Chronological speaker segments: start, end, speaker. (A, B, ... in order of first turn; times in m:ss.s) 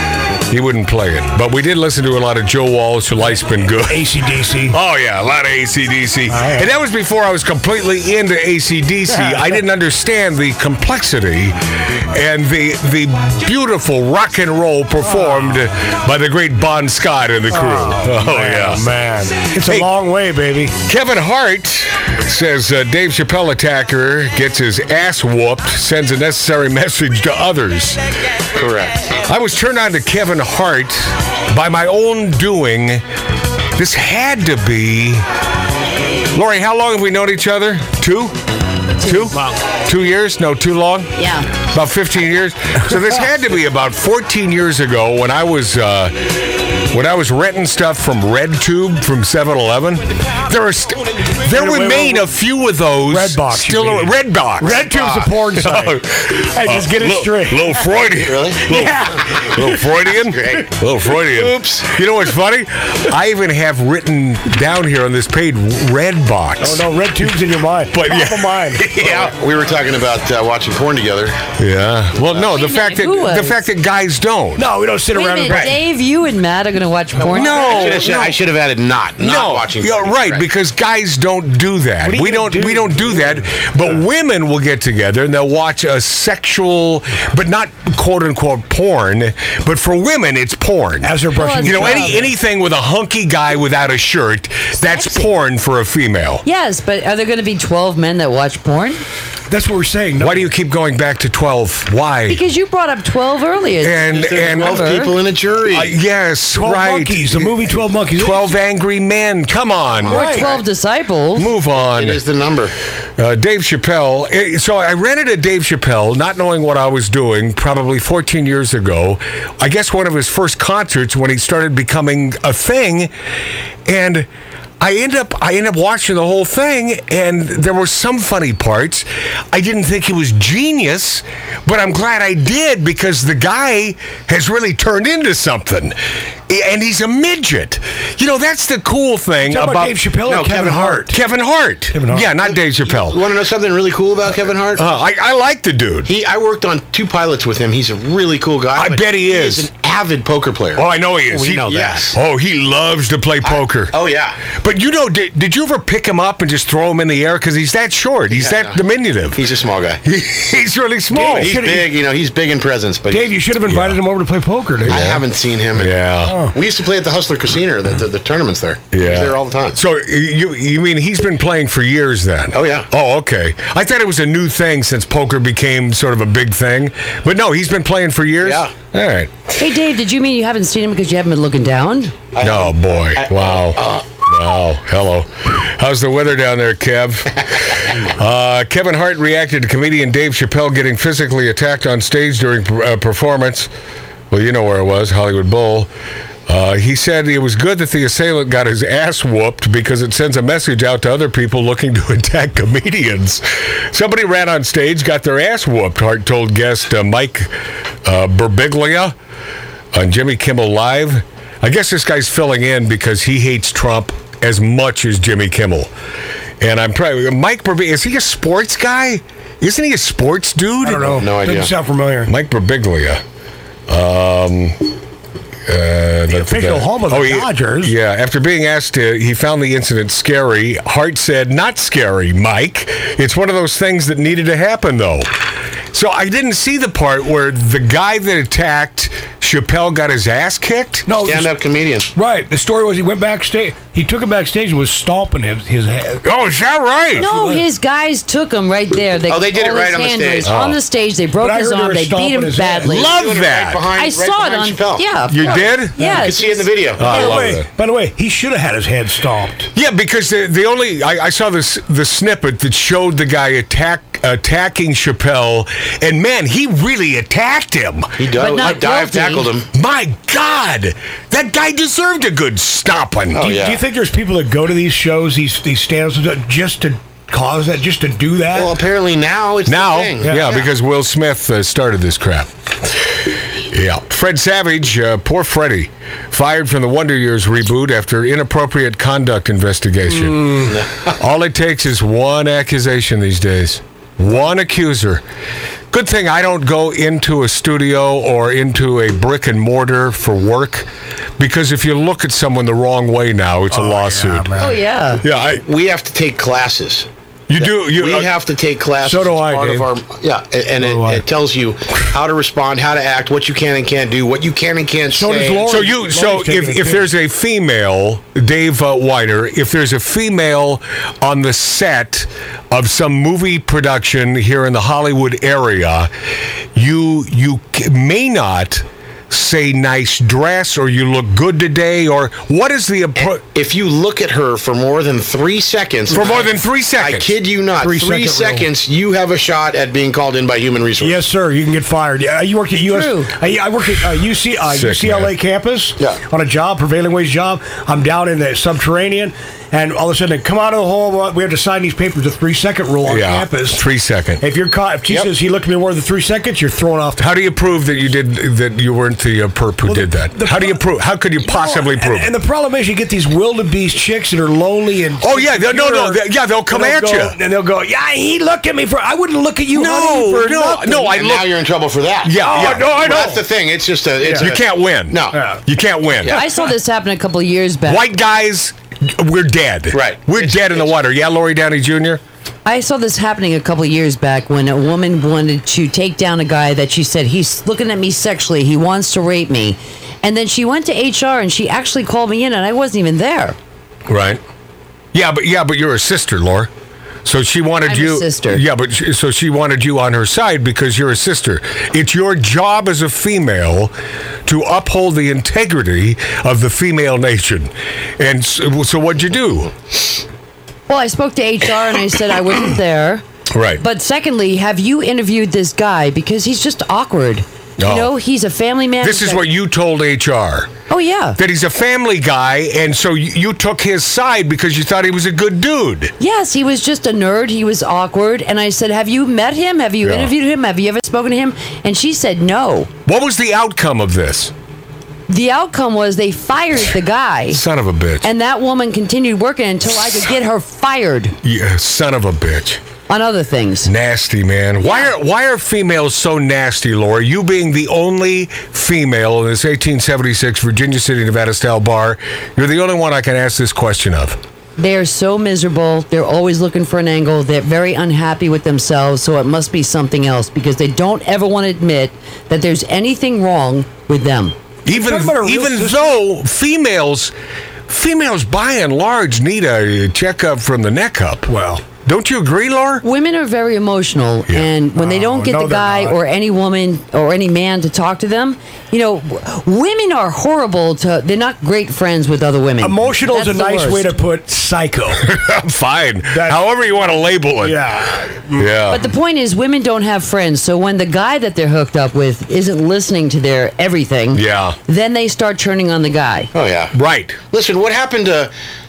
0:00.5-0:04.0 A
0:03.8-0:04.7 B
0:04.7-0:18.8 A
0:06.3-0:06.6 B
0:09.1-0:09.5 B
0:15.1-0:15.6 B
0:17.5-0:20.7 B
0:19.4-0:19.9 A
0:20.8-0:28.0 A
0:28.6-0:29.0 C
0:29.2-0:33.0 A
0:33.8-0:35.2 A
0:36.3-0:38.4 A
0:39.0-0:54.8 A
0:41.2-0:41.5 D
0:51.4-0:52.3 B
0:53.1-0:57.7 B
0:54.7-0:55.4 C
0:55.5-1:07.3 A
0:58.1-0:59.4 C
0:58.7-0:59.8 B
1:00.1-1:00.7 C
1:01.3-1:01.9 C
1:06.6-1:08.9 B
1:07.9-1:09.3 A
1:08.9-1:11.4 C
1:11.6-1:14.6 A
1:12.5-1:13.6 D
1:14.6-1:15.8 B
1:15.1-1:18.1 D
1:15.5-1:15.8 C
1:17.2-1:20.4 C
1:17.3-1:18.4 A
1:19.2-1:36.4 A
1:22.0-1:23.5 B
1:31.0-1:32.3 B
1:31.4-1:32.2 D
1:34.9-1:35.3 D
1:36.4-1:39.0 D
1:39.5-1:40.5 B
1:40.2-1:42.4 A
1:42.3-1:45.1 D
1:43.8-1:44.8 A
1:44.1-1:45.9 C
1:45.7-1:47.6 A
1:46.5-1:48.5 B
1:48.2-1:50.2 A
1:50.1-1:50.6 B
1:50.1-1:51.5 D
1:50.2-1:50.6 C
1:51.4-1:52.2 A
1:51.7-1:52.7 C
1:53.2-2:03.1 A
2:03.8-2:04.3 A
2:04.8-2:16.0 A
2:16.5-2:19.9 A
2:19.4-2:21.2 B
2:20.2-2:21.1 C
2:21.1-2:23.2 A
2:21.9-2:22.3 B
2:22.4-2:24.8 C
2:24.7-2:26.1 A
2:26.0-2:32.2 C
2:28.7-2:29.7 A
2:30.7-2:33.9 A
2:33.4-2:34.4 C
2:34.5-2:39.4 A
2:38.3-2:38.8 C
2:39.3-2:40.0 C
2:40.0-2:41.5 A
2:41.1-2:41.9 B
2:41.2-2:43.4 C
2:43.1-2:45.0 B
2:43.7-2:44.0 A
2:44.8-2:46.0 C
2:44.9-2:46.4 A
2:46.2-2:46.5 B
2:46.5-2:49.8 C
2:48.9-2:59.6 A
2:52.5-2:52.9 C
2:58.4-2:58.7 C
2:59.6-3:02.1 D
3:02.3-3:04.0 C
3:02.4-3:13.7 A
3:14.3-3:15.9 A
3:16.5-3:27.5 A
3:28.0-3:29.1 A
3:29.9-3:35.9 A
3:36.6-3:41.2 A
3:40.8-3:42.3 B
3:41.0-3:41.7 C
3:42.2-3:43.2 A
3:43.9-3:44.9 A
3:45.7-3:55.3 A
3:46.3-3:47.9 B
3:55.9-4:01.0 A
4:01.0-4:01.5 B
4:01.2-4:02.1 C
4:02.1-4:06.2 B
4:06.2-4:07.2 A
4:07.2-4:07.6 B
4:07.2-4:13.1 D
4:09.3-4:10.5 C
4:10.4-4:10.8 A
4:11.4-4:13.0 B
4:12.8-4:13.8 A
4:12.9-4:15.0 C
4:13.9-4:17.4 D
4:15.3-4:16.0 A
4:15.4-4:19.7 B
4:16.1-4:17.2 C
4:17.0-4:17.7 A
4:19.7-4:28.2 A
4:28.2-4:29.7 C
4:28.4-4:29.5 D
4:29.7-4:33.5 A
4:33.3-4:33.8 C
4:33.4-4:38.7 B
4:38.5-4:40.7 C
4:39.6-4:42.5 A
4:40.2-4:40.5 B
4:43.2-4:55.2 A
4:50.6-4:51.0 C
4:55.9-5:00.9 A
5:01.4-5:04.5 A
5:03.7-5:04.8 B
5:04.6-5:05.2 D
5:05.2-5:05.6 A
5:05.6-5:07.1 C
5:07.5-5:08.3 A
5:07.6-5:15.7 C
5:09.0-5:09.9 B
5:10.8-5:11.2 B
5:15.1-5:17.0 B
5:15.6-5:26.1 A
5:26.7-5:33.4 A
5:33.2-5:41.2 C
5:36.1-5:37.3 A
5:37.8-5:38.7 B
5:41.0-5:53.8 B
5:42.8-5:43.3 D
5:44.7-5:45.3 A
5:53.1-5:54.4 A
5:54.4-5:57.2 B
5:55.1-5:55.3 C
5:57.2-6:02.3 A
5:59.8-6:00.8 B
6:01.4-6:11.1 B
6:05.2-6:07.4 A
6:09.7-6:11.5 A
6:11.0-6:15.4 C
6:12.2-6:13.3 A
6:12.3-6:13.4 B
6:14.2-6:14.5 B
6:14.4-6:16.4 A
6:15.3-6:15.6 B
6:16.2-6:16.5 C
6:16.3-6:18.0 D
6:17.8-6:22.2 A
6:19.9-6:21.0 C
6:22.6-6:33.6 D
6:34.1-6:34.4 A
6:35.1-6:36.7 A
6:37.2-6:43.9 A
6:37.8-6:38.6 D
6:44.4-6:49.7 A
6:50.9-6:53.2 D
6:53.5-6:53.8 A
6:53.8-6:59.4 D
6:57.8-6:58.1 A
6:59.0-7:00.7 A
7:00.9-7:01.4 D
7:01.4-7:06.1 A
7:06.2-7:12.9 D
7:10.0-7:10.3 A
7:13.0-7:14.5 A
7:15.3-7:17.6 D
7:17.5-7:18.3 A
7:18.2-7:21.3 D
7:21.4-7:22.8 A
7:23.1-7:23.9 D
7:23.8-7:34.4 A
7:34.8-7:44.5 D
7:44.8-7:47.3 A
7:44.9-7:46.2 B
7:47.9-7:51.5 A
7:51.5-7:51.8 B
7:52.0-7:53.0 A
7:53.0-8:04.1 D
7:55.0-7:56.2 B
8:02.8-8:05.2 B
8:05.2-8:07.8 A
8:06.3-8:06.6 B
8:07.6-8:08.6 B
8:08.5-8:09.1 A
8:08.9-8:16.5 D
8:14.3-8:14.8 A
8:16.5-8:16.9 C
8:16.9-8:17.4 A
8:17.5-8:18.5 C